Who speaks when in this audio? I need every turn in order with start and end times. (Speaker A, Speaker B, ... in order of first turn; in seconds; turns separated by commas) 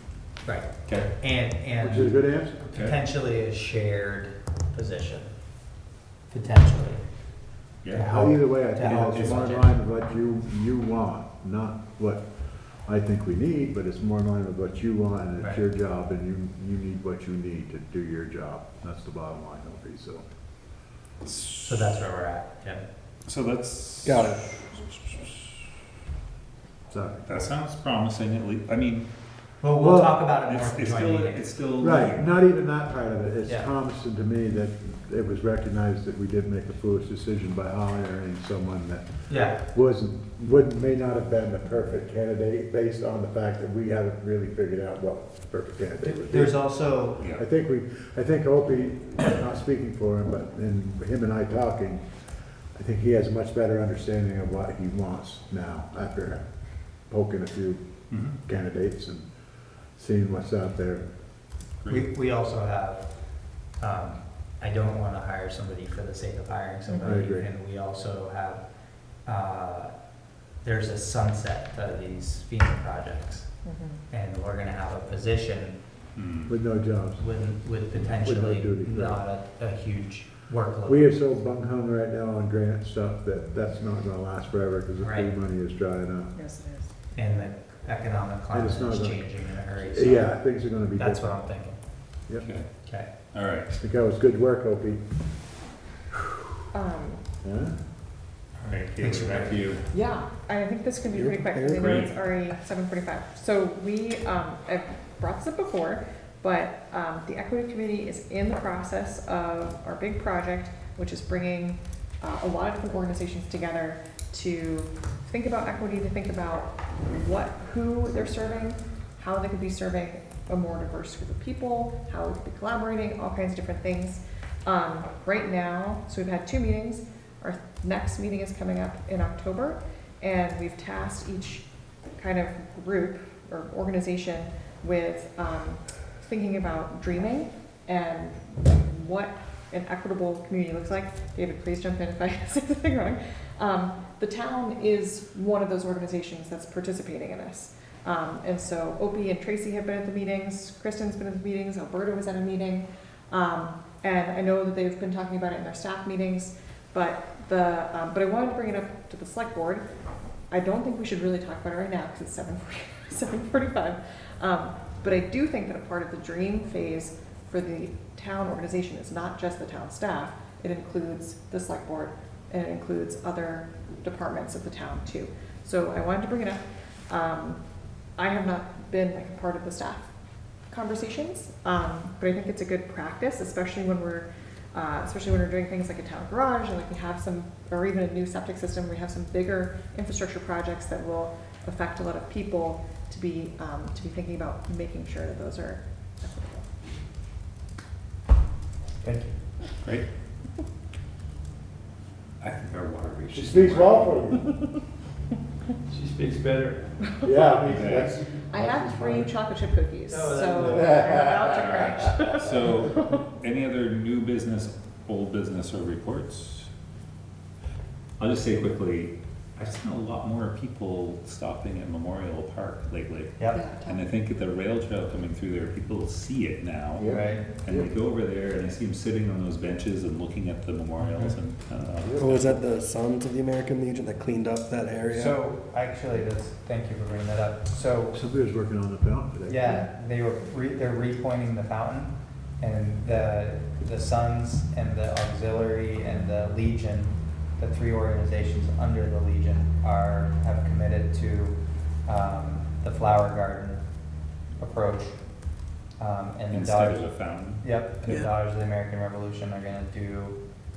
Speaker A: 0.4-5.3, Speaker B: 1.8-2.6, Speaker A: 6.3-7.0, Speaker A: 7.9-9.7, Speaker B: 8.0-12.3, Speaker B: 12.8-20.2, Speaker A: 21.6-22.9, Speaker C: 23.3-24.4, Speaker D: 24.0-24.5, Speaker B: 26.9-27.3, Speaker C: 27.3-29.1, Speaker A: 29.6-31.5, Speaker B: 29.8-30.2, Speaker C: 30.5-32.4, Speaker B: 31.8-46.6, Speaker A: 33.5-33.7, Speaker A: 39.3-39.6, Speaker A: 46.0-47.2, Speaker C: 47.2-47.5, Speaker B: 47.3-52.1, Speaker B: 52.8-56.5, Speaker B: 57.1-59.3, Speaker C: 58.1-58.4, Speaker B: 60.0-61.1, Speaker C: 61.8-62.1, Speaker A: 61.9-63.1, Speaker A: 63.8-68.6, Speaker E: 66.9-67.2, Speaker B: 67.0-67.5, Speaker A: 69.2-69.9, Speaker A: 70.6-73.5, Speaker E: 73.7-74.0, Speaker A: 74.1-75.8, Speaker C: 76.2-76.5, Speaker B: 76.5-77.2, Speaker A: 77.2-81.2, Speaker B: 78.1-79.2, Speaker B: 80.9-86.3, Speaker A: 85.0-85.3, Speaker E: 86.4-86.9, Speaker A: 87.1-90.3, Speaker B: 88.5-91.2, Speaker A: 90.9-91.8, Speaker C: 92.4-92.7, Speaker C: 93.3-93.7, Speaker B: 93.8-95.0, Speaker E: 96.7-97.2, Speaker B: 97.4-97.8, Speaker C: 98.6-99.8, Speaker A: 99.0-99.6, Speaker E: 99.9-131.7, Speaker D: 101.1-102.0, Speaker C: 101.7-102.1, Speaker E: 132.2-159.8, Speaker E: 160.5-177.6, Speaker E: 178.2-180.1, Speaker E: 180.7-196.7, Speaker A: 199.0-199.3, Speaker C: 202.4-204.5, Speaker B: 203.3-204.6, Speaker F: 205.9-206.8, Speaker E: 207.1-207.4, Speaker B: 207.2-209.3, Speaker C: 207.7-208.1, Speaker E: 208.5-213.2, Speaker F: 210.1-211.7, Speaker B: 210.6-211.4, Speaker C: 211.5-216.7, Speaker C: 218.2-232.5, Speaker E: 223.5-224.0, Speaker B: 227.0-227.9, Speaker A: 227.0-227.4, Speaker B: 232.0-232.6, Speaker D: 232.2-235.4, Speaker A: 235.1-238.2, Speaker B: 238.1-239.8, Speaker A: 239.5-253.8, Speaker A: 254.6-255.2, Speaker A: 256.0-257.1, Speaker C: 256.5-257.7, Speaker A: 257.6-260.4, Speaker F: 258.0-258.3